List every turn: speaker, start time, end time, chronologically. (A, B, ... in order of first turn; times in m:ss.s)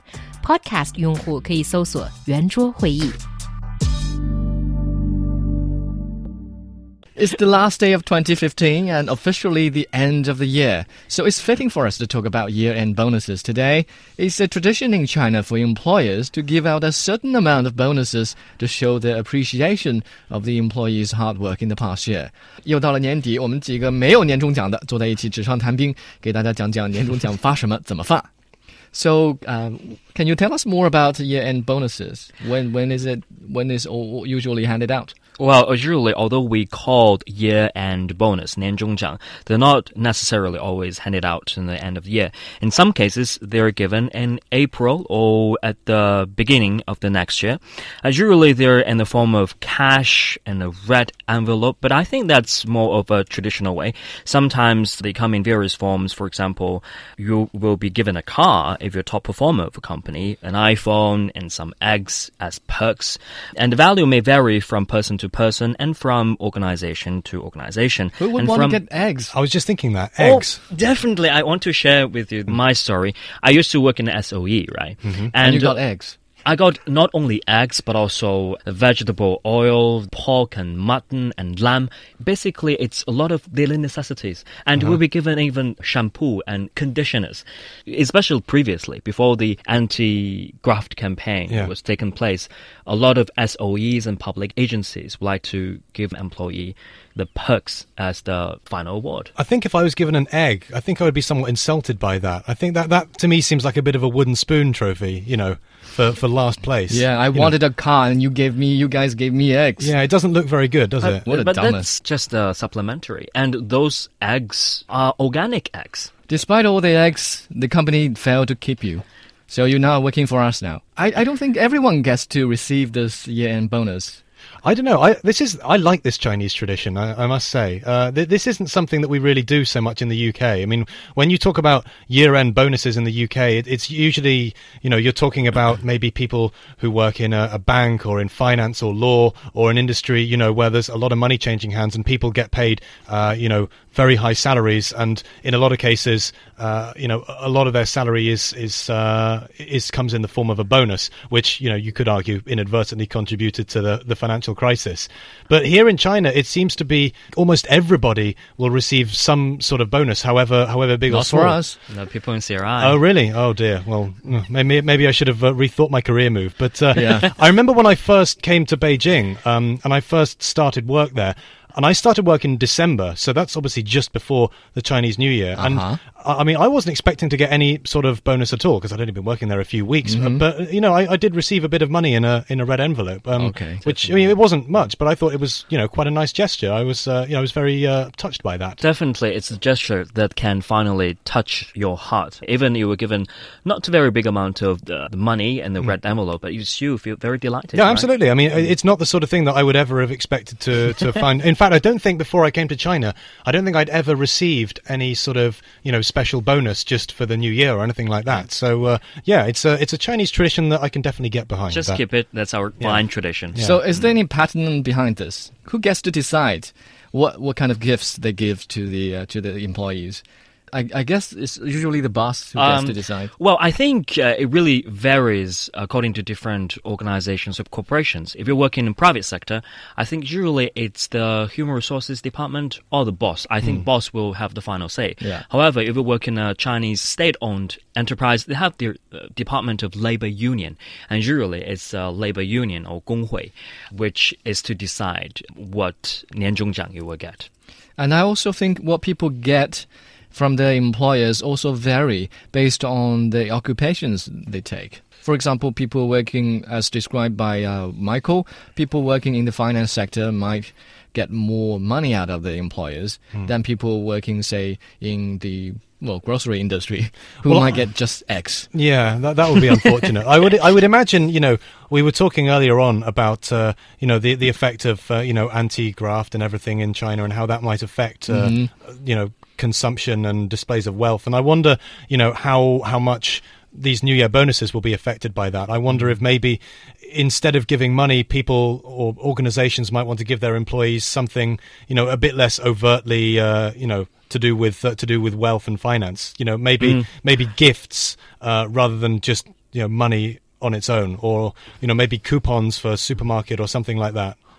0:00.4-0:03.2 A
0:07.2-0:28.3 B
0:28.9-0:35.1 B
0:35.4-1:08.8 C
1:08.2-1:09.3 B
1:09.3-1:10.6 D
1:10.2-1:15.8 C
1:15.0-1:15.3 D
1:15.4-1:16.2 B
1:16.4-1:39.3 C
1:39.4-1:47.5 D
1:46.9-1:49.9 B
1:49.8-1:51.2 D
1:51.0-1:56.1 C
1:51.2-1:51.9 B
1:56.3-2:04.2 B
2:04.6-2:41.7 D
2:41.1-2:41.8 B
2:41.9-2:43.0 C
2:42.8-3:08.8 D
2:47.0-2:47.2 B
2:55.6-2:56.0 B
3:00.0-3:00.4 B
3:03.4-3:04.2 B
3:08.8-3:18.7 C
3:17.8-3:32.0 D
3:31.7-3:34.0 C
3:33.6-3:43.3 B
3:42.6-4:07.5 C
4:08.0-4:28.7 B
4:27.4-4:27.8 D
4:28.7-5:04.4 D
4:38.3-4:38.7 B
4:56.8-4:57.1 C